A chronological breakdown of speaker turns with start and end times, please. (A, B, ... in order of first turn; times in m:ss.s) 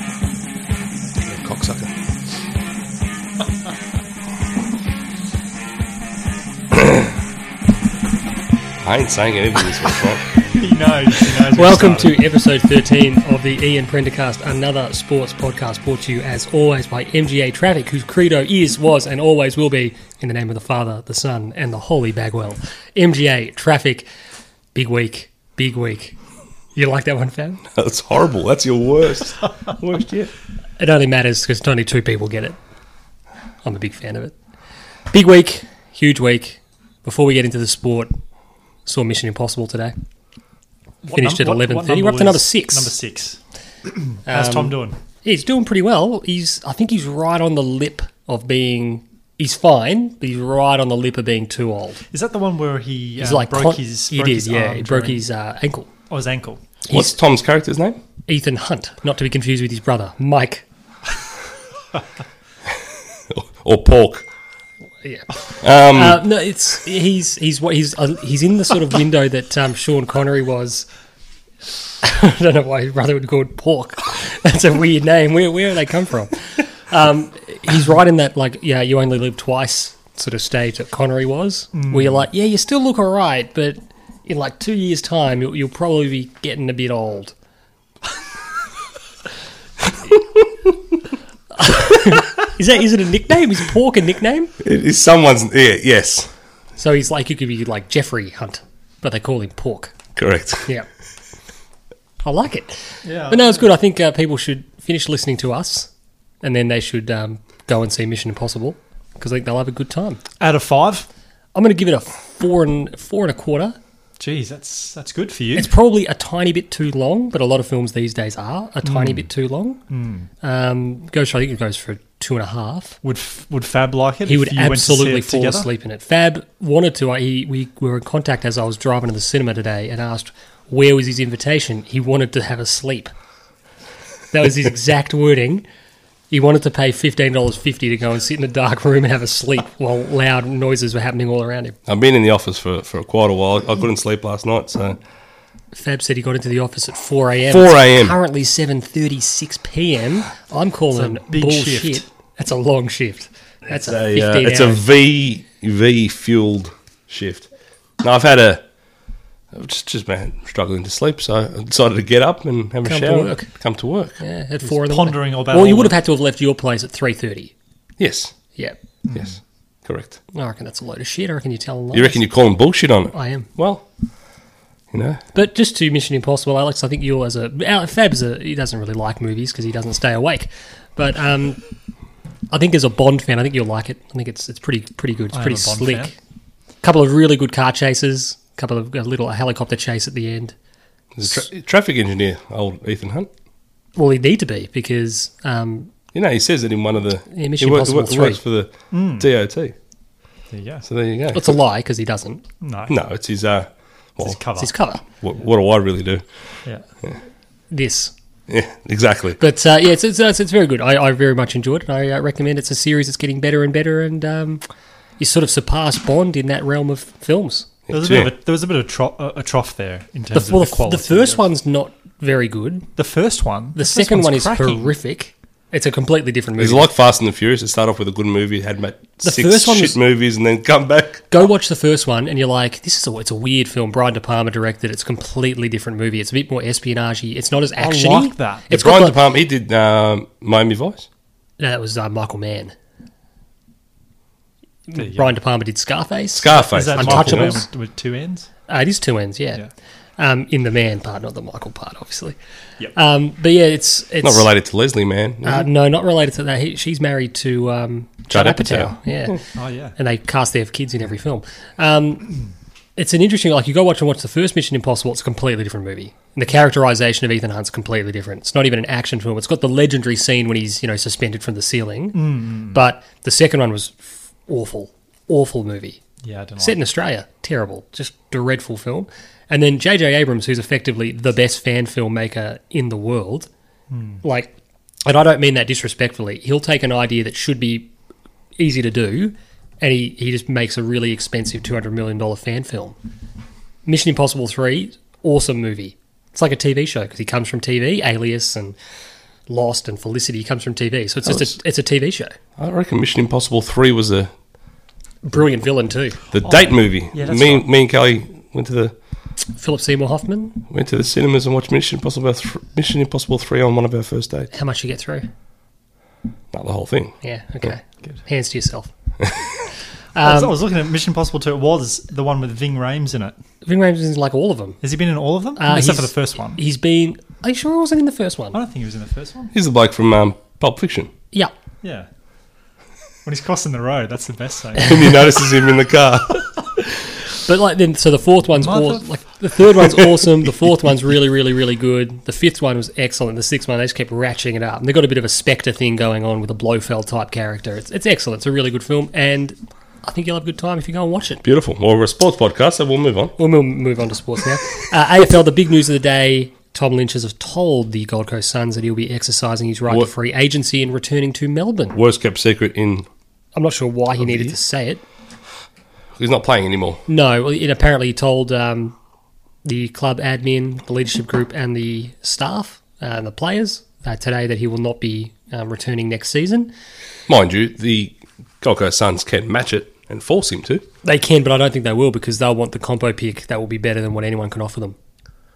0:01.2-0:01.9 A
0:06.7-0:07.1 A
0:08.8-0:10.2 A
0:10.5-0:12.2 B
0:11.5-0:24.1 C
0:24.7-0:26.2 C
0:26.8-0:27.6 C
0:27.7-0:30.3 A
0:30.8-0:32.6 C
0:33.6-0:34.3 C
0:35.1-0:38.1 C
0:38.8-0:39.9 C
0:41.0-0:43.4 B
0:41.1-0:42.9 C
0:44.0-0:45.0 B
0:44.2-0:52.0 C
0:52.1-0:55.2 B
0:53.2-0:55.9 C
0:56.1-0:56.6 B
0:56.8-0:57.1 C
0:56.9-0:58.0 A
0:58.3-1:00.6 C
1:03.3-1:04.2 A
1:05.6-1:06.2 A
1:05.8-1:10.9 C
1:12.0-1:27.3 C
1:21.7-1:22.2 B
1:30.0-1:30.7 A
1:31.6-1:34.5 C
1:34.6-1:36.3 A
1:36.8-1:39.9 C
1:40.2-1:40.7 A
1:42.2-1:45.9 C
1:43.0-1:43.6 B
1:46.4-1:50.2 C
1:50.4-1:51.1 B
1:51.5-1:53.8 C
1:54.2-1:55.7 B
1:55.5-1:59.8 C
1:58.8-1:59.3 B
1:59.9-2:00.3 B
2:00.4-2:03.0 C
2:03.0-2:05.7 B
2:04.2-2:13.1 C
2:14.3-2:15.6 C
2:16.3-2:21.8 C
2:21.9-2:25.0 A
2:25.7-2:34.8 C
2:27.5-2:28.2 A
2:30.9-2:32.0 B
2:33.7-2:37.5 A
2:38.0-2:38.6 A
2:39.5-2:44.2 A
2:42.8-2:43.5 C
2:44.2-2:47.5 C
2:44.7-2:46.0 B
2:48.0-2:48.3 A
2:49.1-2:50.2 A
2:50.3-2:52.2 C
2:51.9-2:53.8 A
2:53.1-2:53.5 C
2:54.9-2:55.2 A
2:55.3-3:01.6 C
3:02.5-3:06.2 C
3:05.3-3:06.1 B
3:06.8-3:10.5 C
3:11.1-3:13.3 A
3:14.0-3:15.9 C
3:16.1-3:19.7 A
3:17.3-3:18.4 C
3:18.9-3:19.3 B
3:20.5-3:20.8 B
3:20.8-3:21.6 A
3:21.3-3:22.4 C
3:22.6-3:23.0 B
3:22.9-3:24.4 A
3:24.2-3:24.7 B
3:24.6-3:25.0 C
3:25.2-3:26.2 A
3:27.7-3:28.1 C
3:28.5-3:29.4 A
3:29.4-3:34.6 C
3:35.2-3:37.7 C
3:37.9-3:38.3 A
3:37.9-3:41.4 B
3:40.3-3:42.9 C
3:43.0-3:44.8 B
3:43.8-3:46.9 C
3:46.6-3:51.3 A
3:49.2-3:50.0 C
3:51.3-3:59.2 C
3:57.8-3:58.7 B
3:58.7-4:01.1 A
4:01.6-4:02.7 C
4:04.9-4:07.6 C
4:05.0-4:05.3 B
4:06.3-4:07.6 A
4:06.5-4:08.5 B
4:08.7-4:09.6 C
4:10.2-4:12.4 C
4:12.9-4:14.5 C
4:14.2-4:15.7 A
4:15.4-4:19.4 C
4:18.3-4:19.4 A
4:19.5-4:20.0 B
4:20.0-4:22.4 C
4:23.0-4:36.0 C
4:32.1-4:32.8 B
4:36.2-4:36.8 B
4:36.6-4:43.5 C
4:43.9-4:44.2 B
4:44.2-4:44.5 C
4:45.0-4:47.9 C
4:48.6-4:53.0 C
4:53.8-4:58.8 C
4:59.5-5:02.3 C
5:02.6-5:04.3 A
5:05.2-5:06.2 C
5:06.3-5:08.9 A
5:06.4-5:07.6 B
5:09.6-5:10.6 C
5:10.7-5:14.5 A
5:14.5-5:15.3 C
5:16.5-5:17.1 A
5:17.2-5:18.9 C
5:19.2-5:19.5 A
5:20.1-5:20.5 C
5:20.2-5:23.3 B
5:23.6-5:24.8 C
5:24.8-5:26.6 B
5:25.6-5:28.6 C
5:28.5-5:29.5 B
5:29.5-5:31.1 A
5:31.8-5:32.1 B
5:33.2-5:35.2 B
5:34.8-5:36.5 A
5:37.4-5:51.4 C
5:38.6-5:39.1 B
5:51.4-5:53.3 A
5:53.4-6:02.0 C
6:01.9-6:03.1 A
6:03.6-6:05.0 C
6:06.2-6:07.0 A
6:07.1-6:08.9 C
6:09.6-6:16.7 C
6:17.3-6:20.8 A
6:21.0-6:25.0 C